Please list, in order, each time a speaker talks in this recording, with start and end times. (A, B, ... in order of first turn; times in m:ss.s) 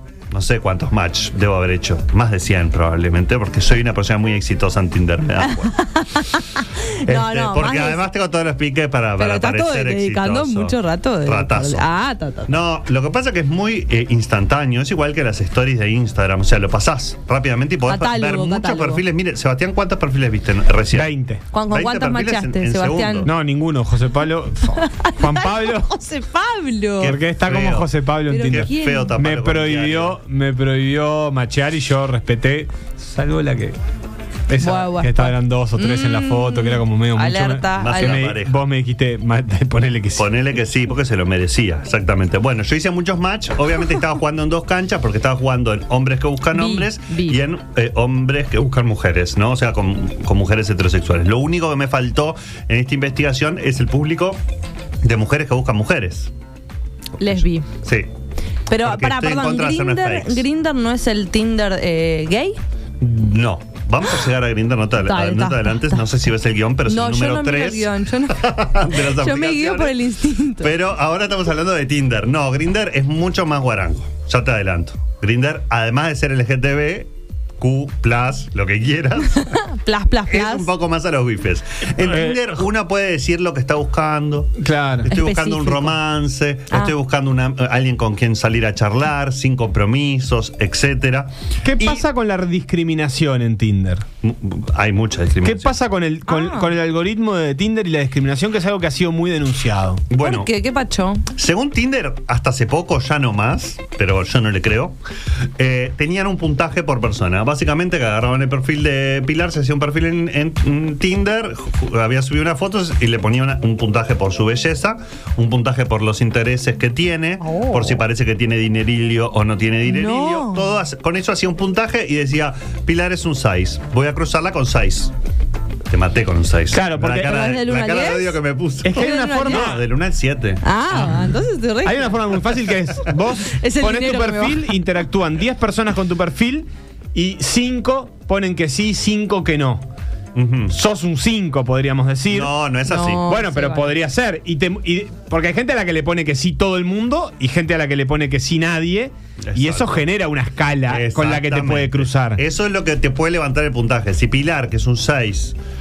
0:00.3-0:05.8 A
0:05.4-0:08.1 B
0:07.0-0:11.9 A
0:09.2-0:12.5 B
0:12.5-0:21.1 A
0:17.8-0:19.0 B
0:20.9-0:21.4 C
0:21.5-0:23.3 B
0:21.7-0:23.3 A
0:23.2-0:25.9 C
0:24.7-0:27.2 B
0:27.0-0:27.9 A
0:27.0-0:33.8 C
0:28.3-0:29.1 B
0:28.5-0:30.2 A
0:34.5-0:40.3 C
0:34.6-0:38.3 B
0:37.7-0:38.6 A
0:40.2-0:54.4 A
0:46.5-0:47.4 B
0:55.0-0:56.3 A
0:57.2-0:57.7 B
0:57.3-0:58.1 A
0:58.7-1:02.6 B
0:58.8-1:00.4 A
1:03.0-1:10.0 A
1:05.0-1:06.0 B
1:06.8-1:10.7 B
1:10.6-1:19.6 A
1:19.3-1:20.7 B
1:20.3-1:32.0 A
1:22.0-1:22.5 C
1:24.6-1:25.1 C
1:25.1-1:26.0 B
1:31.6-1:34.0 C
1:34.2-1:35.8 A
1:35.4-1:40.0 C
1:36.3-1:36.7 B
1:40.1-1:40.5 A
1:40.2-1:41.3 B
1:41.3-1:45.0 A
1:45.6-2:05.1 A
1:57.4-1:58.0 B
1:59.8-2:00.7 B
2:05.9-2:10.6 A
2:06.7-2:07.4 C
2:07.2-2:08.4 B
2:08.8-2:09.8 C
2:08.9-2:09.7 B
2:10.6-2:12.3 B
2:10.9-2:11.2 C
2:11.8-2:19.8 C
2:13.4-2:14.7 B
2:20.3-2:20.8 A
2:20.7-2:22.5 C
2:22.3-2:23.3 A
2:22.8-2:23.9 B
2:23.2-2:32.4 C
2:29.4-2:30.0 A
2:30.9-2:35.6 A